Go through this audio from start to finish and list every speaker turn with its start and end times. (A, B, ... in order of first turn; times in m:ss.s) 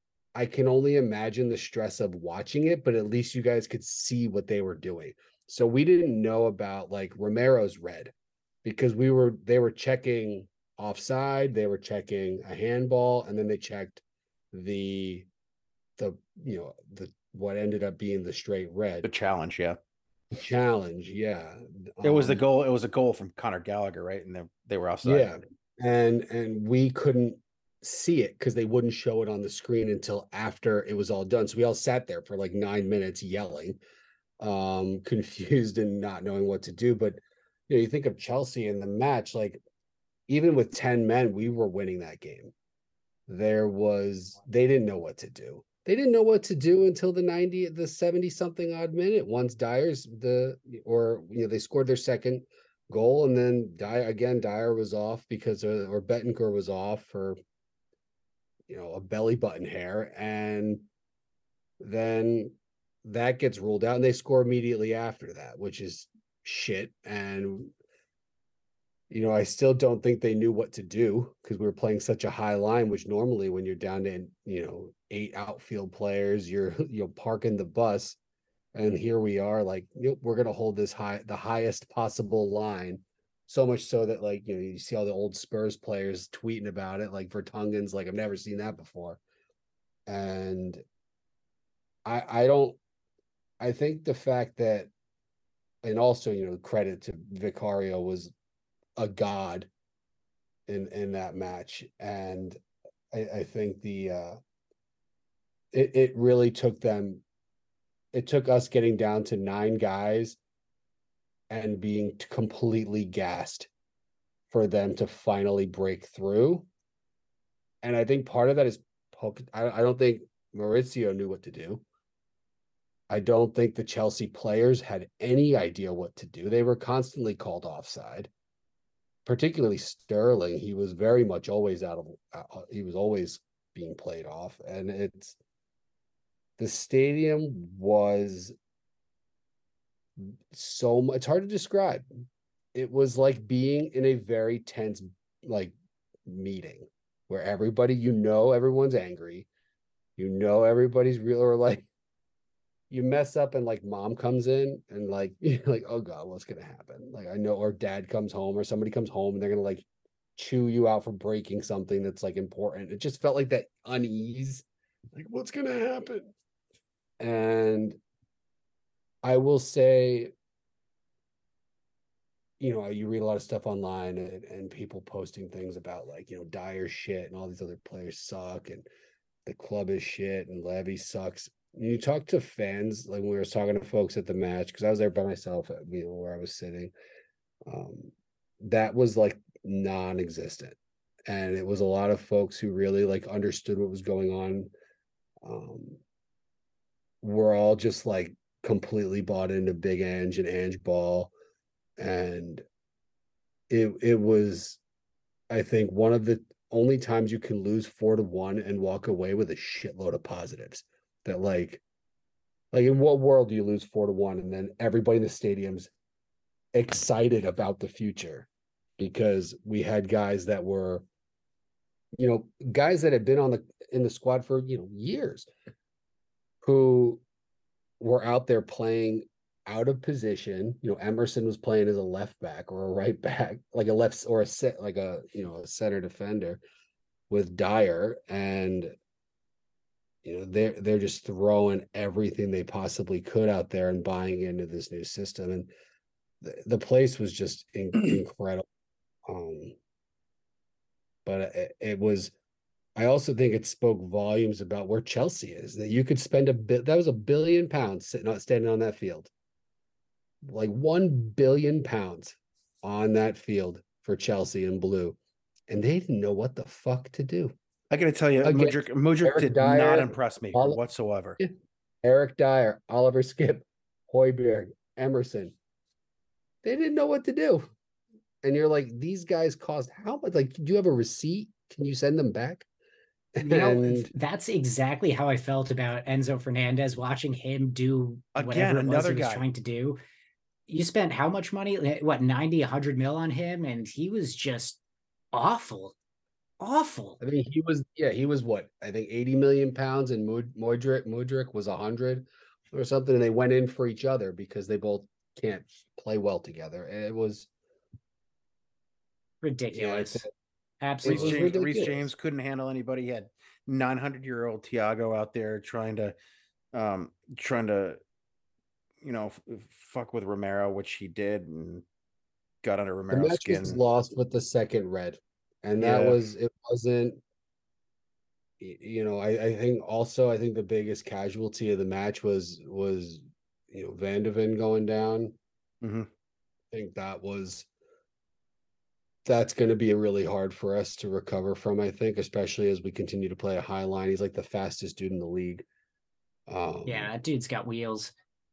0:00.3-0:08.1 A
0:08.6-0:14.0 A
0:14.5-0:15.3 A
0:16.0-0:19.1 A
0:19.0-0:19.8 B
0:20.3-0:22.4 A
0:22.0-0:25.4 B
0:25.0-0:33.8 A
0:34.4-0:39.6 A
0:40.3-0:42.5 A
0:43.3-0:57.4 A
0:58.7-1:00.8 A
1:01.8-1:07.7 A
1:09.1-1:18.2 A
1:18.7-1:29.2 A
1:30.1-1:30.8 A
1:32.0-1:32.8 A
1:33.6-1:34.9 A
1:35.8-1:38.3 A
1:39.0-1:39.7 A
1:40.7-1:42.6 A
1:43.1-1:44.4 A
1:45.7-1:47.2 A
1:48.1-1:50.4 A
1:51.5-1:53.7 A
1:54.5-1:56.7 A
1:57.8-2:01.8 A
2:03.1-2:08.3 A
2:09.2-2:15.4 A
2:16.6-2:18.5 A
2:20.2-2:25.7 A
2:26.2-2:29.5 A
2:30.2-2:31.9 A
2:32.9-2:39.8 A
2:40.4-2:46.3 A
2:47.2-2:48.0 A
2:49.2-2:50.3 A
2:52.6-2:58.8 A
2:59.4-3:06.9 A
3:07.6-3:14.7 A
3:15.4-3:16.0 A
3:17.2-3:21.3 A
3:22.0-3:22.6 A
3:23.7-3:24.8 A
3:25.5-3:31.8 A
3:32.7-3:35.9 A
3:36.7-3:38.5 A
3:39.0-3:41.0 A
3:42.2-3:45.5 A
3:46.6-3:47.2 A
3:48.0-3:56.6 A
3:57.3-3:59.0 A
4:00.2-4:05.7 A
4:06.4-4:08.6 A
4:09.3-4:09.7 A
4:11.2-4:12.3 A
4:13.0-4:19.3 A
4:20.4-4:25.2 A
4:25.7-4:27.5 A
4:27.9-4:31.4 B
4:28.4-4:30.8 A
4:32.0-4:35.5 A
4:36.6-4:37.7 A
4:38.4-4:42.6 A
4:43.4-4:44.1 A
4:43.4-4:50.0 C
4:48.4-4:49.4 B
4:50.7-4:54.8 C
4:55.3-4:55.9 C
4:56.6-4:57.2 C
4:57.2-5:07.5 A
5:09.4-5:10.2 C
5:09.7-5:10.3 A
5:10.8-5:11.6 C
5:11.0-5:12.1 A
5:11.0-5:16.1 B
5:16.7-5:18.0 B
5:19.0-5:21.8 B
5:22.6-5:23.8 B
5:23.1-5:27.2 A
5:25.8-5:26.2 B
5:28.6-5:35.3 A
5:35.8-5:36.1 B
5:36.7-5:37.7 A
5:39.2-5:45.6 A
5:46.5-5:47.1 A
5:46.8-5:48.1 C